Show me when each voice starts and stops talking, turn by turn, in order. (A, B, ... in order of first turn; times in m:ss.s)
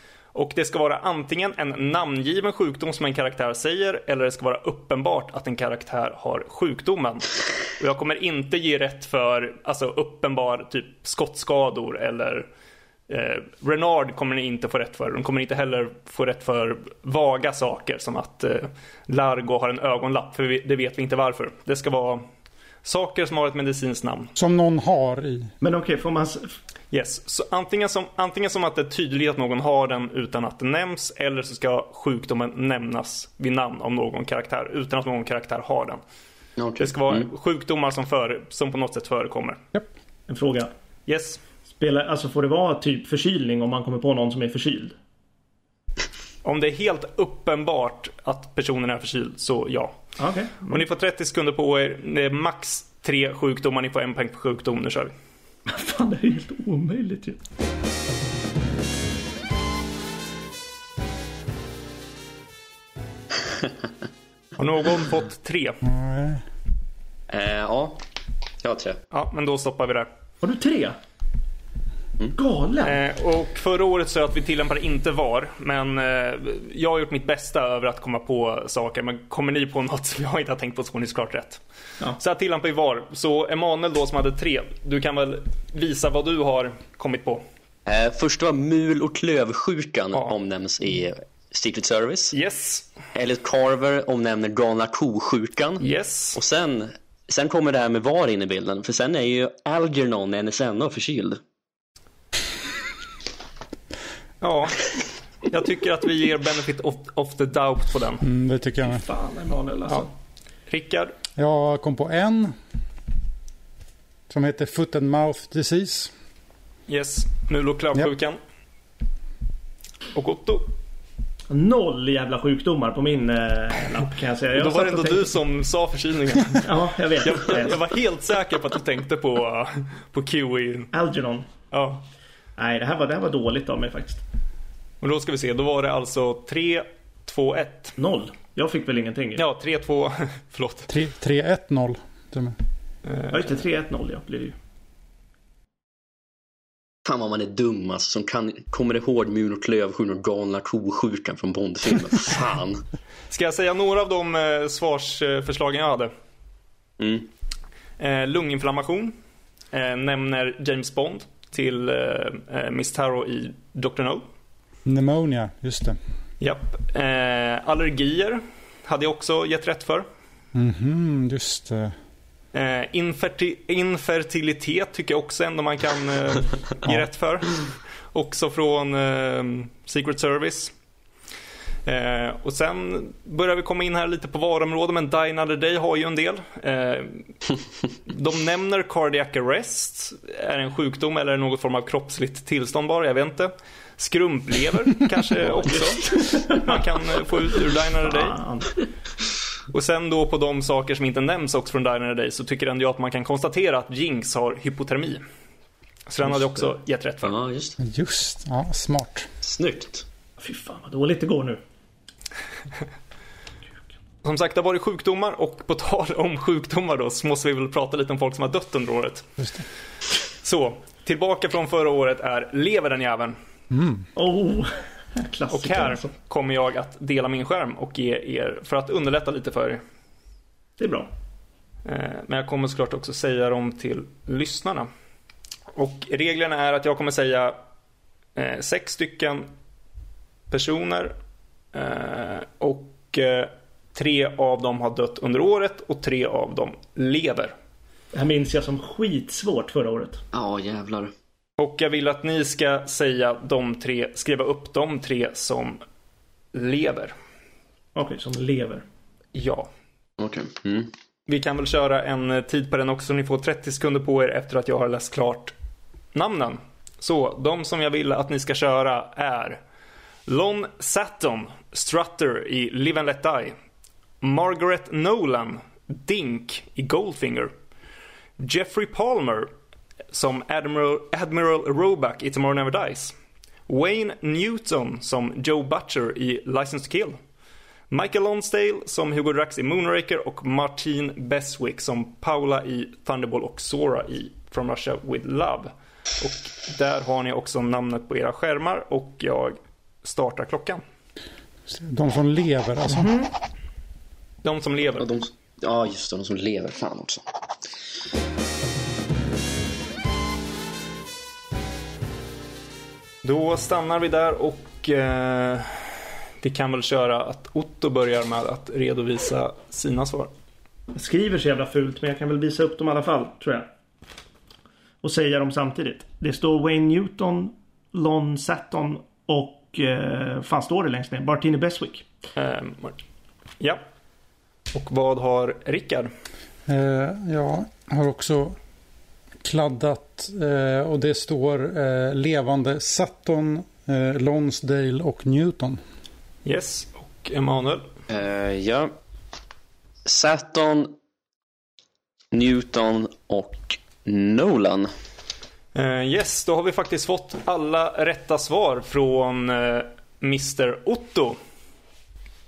0:00.3-0:12.5 A
0:13.1-0:22.2 A
0:22.8-0:24.3 A
0:24.4-0:25.5 B
0:25.6-0:26.5 C
0:26.9-0:36.0 A
0:36.6-0:37.3 D
0:36.8-0:39.6 A
0:40.3-0:40.7 C
0:41.1-0:41.4 A
0:41.7-0:45.0 C
0:46.4-0:50.0 A
0:50.2-0:50.8 C
0:50.7-0:55.1 A
0:55.6-0:57.4 C
1:04.6-1:05.8 A
1:05.8-1:06.4 B
1:07.3-1:08.0 D
1:08.6-1:09.0 D
1:09.1-1:10.1 A
1:10.4-1:11.0 C
1:12.3-1:13.0 C
1:12.8-1:21.6 A
1:22.2-1:27.4 A
1:27.8-1:32.3 D
1:32.3-1:32.8 A
1:33.1-1:35.8 D
1:35.8-1:36.4 A
1:36.3-1:41.4 D
1:44.4-1:48.2 A
1:48.2-1:49.0 B
1:48.8-1:50.1 C
1:50.7-1:51.1 A
1:51.4-1:52.6 B
1:54.3-1:56.1 B
1:56.9-1:58.4 A
2:00.1-2:00.7 A
2:01.5-2:05.3 C
2:04.5-2:06.7 A
2:06.6-2:07.8 C
2:07.2-2:10.9 A
2:10.9-2:11.5 C
2:11.7-2:12.0 A
2:12.6-2:14.2 C
2:15.0-2:17.9 A
2:18.0-2:19.4 C
2:19.4-2:20.9 A
2:20.9-2:22.6 B
2:23.0-2:23.4 A
2:23.3-2:24.6 C
2:27.0-2:32.8 D
2:33.3-2:36.1 A
2:37.0-2:37.3 D
2:38.0-2:39.1 A
2:39.7-2:44.2 A
2:44.8-2:46.0 B
2:46.4-2:50.0 A
2:50.5-2:52.0 B
2:52.5-3:00.7 A
3:01.8-3:07.3 A
3:08.1-3:18.4 A
3:15.7-3:16.8 C
3:18.0-3:18.8 C
3:19.7-3:25.2 A
3:26.1-3:27.3 A
3:27.2-3:27.8 D
3:27.8-3:29.3 B
3:29.4-3:30.0 D
3:30.4-3:31.6 C
3:34.2-3:39.3 A
3:39.4-3:39.6 B
3:40.4-3:43.4 A
3:43.7-3:44.1 B
3:44.1-3:46.1 C
3:45.5-3:49.8 A
3:50.8-3:51.1 C
3:51.8-3:54.9 A
3:55.8-3:57.6 A
3:58.4-3:59.5 A
4:00.5-4:01.1 A
4:01.7-4:07.5 A
4:08.1-4:10.2 C
4:10.3-4:11.1 D
4:11.6-4:15.8 A
4:16.5-4:17.1 A
4:18.0-4:18.8 C
4:19.3-4:19.7 A
4:20.2-4:20.9 D
4:21.3-4:25.5 A
4:26.1-4:29.6 A
4:30.3-4:33.5 A
4:34.2-4:37.5 A
4:38.4-4:39.5 A
4:40.1-4:43.2 A
4:43.7-4:47.2 A
4:47.9-5:00.8 A
5:01.7-5:03.3 B
5:04.4-5:05.1 A
5:05.0-5:07.2 D
5:13.2-5:20.3 A
5:20.9-5:23.7 C
5:25.0-5:32.0 C
5:32.4-5:33.0 A
5:34.7-5:36.1 A
5:36.7-5:38.6 B
5:39.4-5:45.8 B
5:46.4-5:47.8 A
5:48.1-5:48.9 D
5:50.0-5:51.0 D
5:52.3-5:54.9 D
5:55.8-6:01.4 A